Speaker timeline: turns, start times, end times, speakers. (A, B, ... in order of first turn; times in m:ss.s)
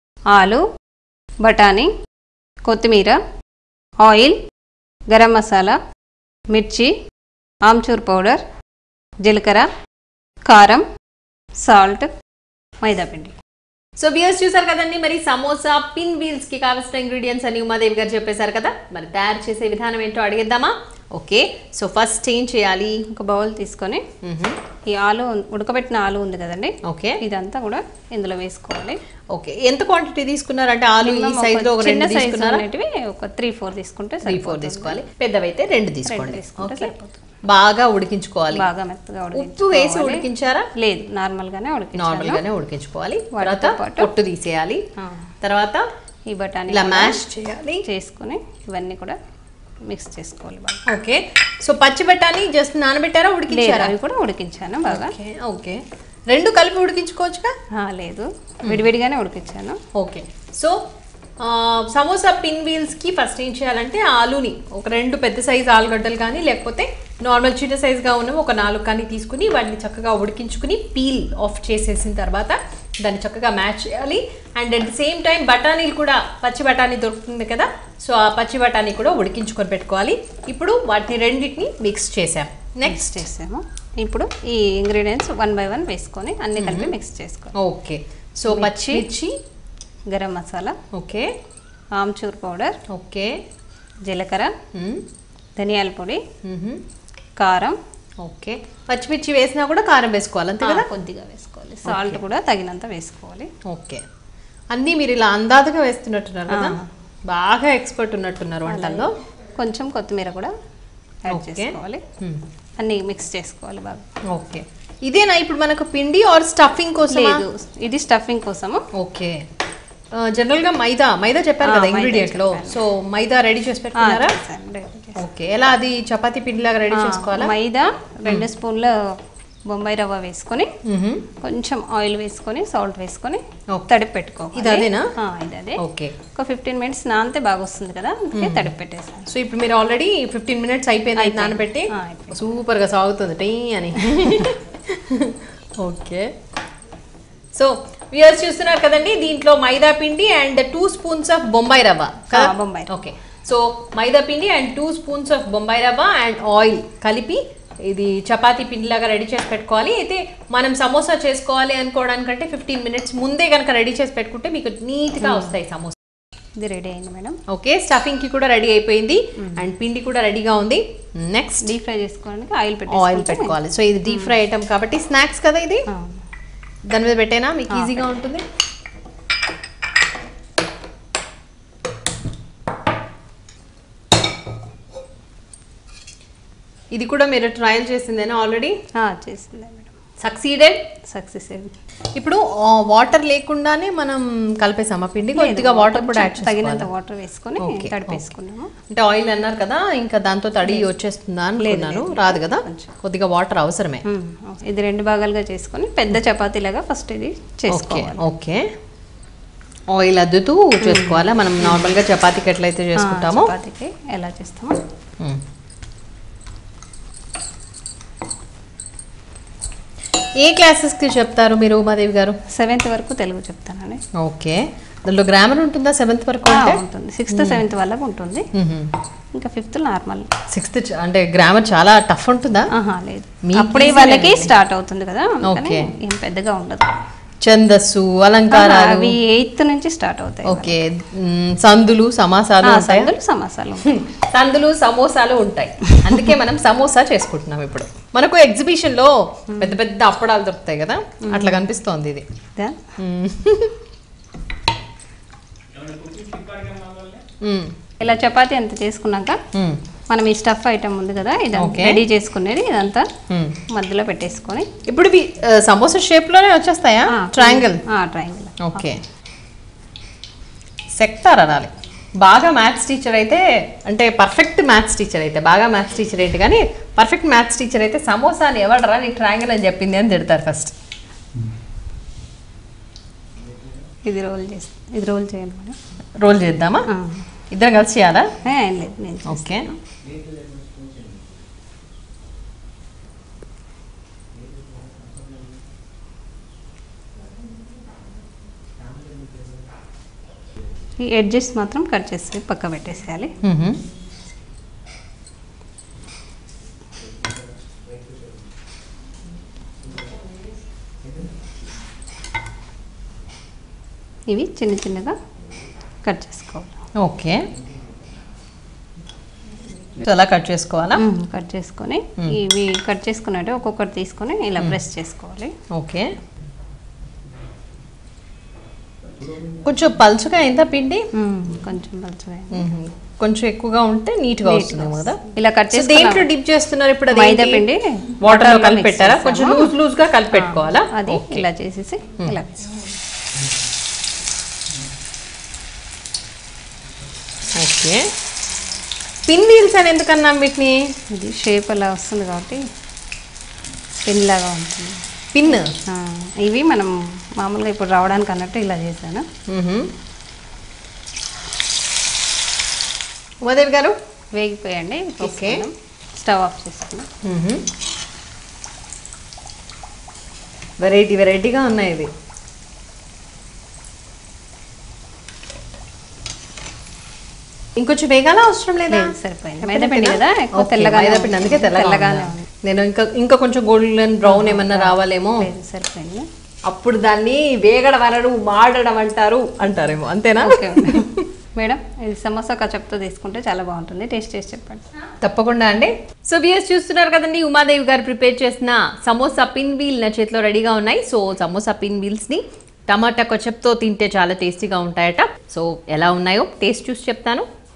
0:00.3-0:00.6 A
0:01.4-0:01.9 A
0:02.6-0:03.2 A
0:04.0-0:04.4 A
0:05.1-0:05.8 A
0:06.5-0:06.9 A
0:07.6-0:08.4 A
0:09.2-0:09.7 A
0:10.5-0:10.9 A
0:11.6-0:12.1 A
0:12.8-0:13.4 A
0:14.0-0:23.0 B
0:23.1-0:24.0 A
0:24.2-0:24.6 B
0:24.9-0:29.0 A
0:26.8-0:27.2 B
0:29.3-0:32.6 B
0:31.0-0:35.0 A
0:34.3-0:36.9 B
0:36.1-0:37.3 A
0:37.4-0:38.6 B
0:38.5-0:40.3 A
0:39.3-0:40.7 B
0:40.8-0:42.4 A
0:42.0-0:44.8 B
0:43.3-0:44.1 A
0:45.4-0:45.9 B
0:46.3-0:47.2 A
0:46.7-0:47.8 B
0:47.8-0:49.2 A
0:49.8-0:50.8 A
0:50.9-0:53.9 B
0:53.5-0:55.2 A
0:54.9-0:57.5 B
0:57.7-0:59.8 A
1:00.0-1:00.8 B
1:01.4-1:23.2 B
1:22.8-1:27.5 A
1:26.6-1:26.9 B
1:27.6-1:29.4 B
1:28.5-1:29.1 A
1:30.1-1:30.8 A
1:30.9-1:31.3 B
1:31.9-1:32.8 A
1:32.9-1:33.4 B
1:34.1-1:34.6 A
1:34.7-1:35.0 B
1:35.6-1:36.2 A
1:36.4-1:36.8 B
1:37.4-1:37.8 A
1:38.2-1:40.9 B
1:40.6-1:43.5 A
1:41.9-1:42.2 B
1:43.7-1:44.0 B
1:44.7-1:49.1 B
1:46.5-1:46.9 A
1:48.7-1:49.1 A
1:49.6-1:50.5 A
1:51.3-1:52.0 A
1:51.3-1:52.4 B
1:52.8-1:54.1 A
1:54.3-1:57.4 B
1:57.1-1:58.9 A
1:59.0-1:59.4 B
2:00.2-2:04.4 B
2:01.6-2:02.8 A
2:04.0-2:05.2 A
2:05.2-2:07.5 B
2:06.9-2:09.2 A
2:09.7-2:10.7 A
2:10.8-2:11.3 B
2:11.4-2:15.8 A
2:14.6-2:15.1 B
2:15.8-2:16.2 B
2:16.3-2:19.3 A
2:18.4-2:18.7 B
2:19.3-2:26.3 B
2:21.2-2:22.4 A
2:27.6-2:46.0 B
2:32.3-2:32.9 A
2:45.2-2:45.5 A
2:46.6-2:47.4 A
2:47.5-2:51.6 B
2:49.4-2:49.7 A
2:51.6-2:53.6 A
2:52.9-2:55.9 B
2:54.1-2:54.4 A
2:55.9-2:56.2 A
2:56.9-2:58.4 B
3:07.0-3:08.7 B
3:09.0-3:09.9 A
3:10.2-3:10.8 B
3:11.1-3:11.7 A
3:12.2-3:16.9 B
3:15.4-3:18.7 A
3:17.6-3:18.3 B
3:18.9-3:24.0 B
3:21.6-3:22.9 A
3:24.1-3:28.2 A
3:27.7-3:28.7 B
3:29.9-3:33.5 B
3:30.8-3:31.9 A
3:33.0-3:34.8 A
3:40.4-3:42.4 B
3:42.5-3:44.0 A
3:44.2-3:46.8 B
3:46.5-3:48.5 A
3:47.3-3:47.6 B
3:48.6-3:48.9 B
3:49.3-3:50.3 A
3:50.5-3:52.7 B
3:52.7-3:57.0 A
3:53.4-3:54.5 B
3:55.4-3:55.9 B
3:57.4-3:59.2 B
3:58.5-4:00.8 A
4:00.4-4:03.1 B
4:02.6-4:03.9 A
4:03.8-4:12.2 B
4:11.2-4:11.6 A
4:12.6-4:12.8 A
4:13.0-4:13.7 B
4:17.4-4:17.7 B
4:18.0-4:19.4 A
4:19.5-4:19.8 B
4:20.1-4:23.1 A
4:21.6-4:22.0 B
4:23.3-4:23.6 B
4:23.7-4:24.7 A
4:24.9-4:27.8 B
4:27.1-4:28.8 A
4:28.6-4:29.0 B
4:31.0-4:40.8 B
4:44.1-4:45.8 A
4:46.2-4:46.9 B
4:46.9-4:47.3 A
4:47.5-4:48.3 B
4:48.4-4:49.8 A
4:49.3-4:49.7 B
5:01.0-5:03.3 A
5:03.4-5:03.8 B
5:14.3-5:15.2 A
5:16.0-5:16.8 A
5:17.0-5:17.5 B
5:20.0-5:21.0 B
5:21.0-5:25.5 A
5:25.7-5:26.1 B
5:29.5-5:31.0 B
5:31.2-5:32.7 A
5:32.5-5:35.2 B
5:34.4-5:36.3 A
5:35.7-5:37.6 B
5:37.1-5:39.8 A
5:38.2-5:41.4 B
5:40.3-5:42.9 A
5:47.6-5:48.1 B
5:49.3-5:50.8 B
5:51.1-5:52.6 A
5:54.0-5:55.0 A
5:55.3-5:55.7 B
5:55.5-5:59.3 A
5:59.5-5:59.9 B
6:03.4-6:04.0 B
6:04.4-6:07.1 A
6:05.2-6:05.7 B
6:07.2-6:07.6 B
6:10.8-6:12.1 B
6:17.8-6:19.1 B
6:18.9-6:22.5 A
6:19.6-6:25.5 B
6:24.2-6:26.3 A
6:26.7-6:31.3 B
6:30.4-6:34.9 A
6:35.2-6:47.5 B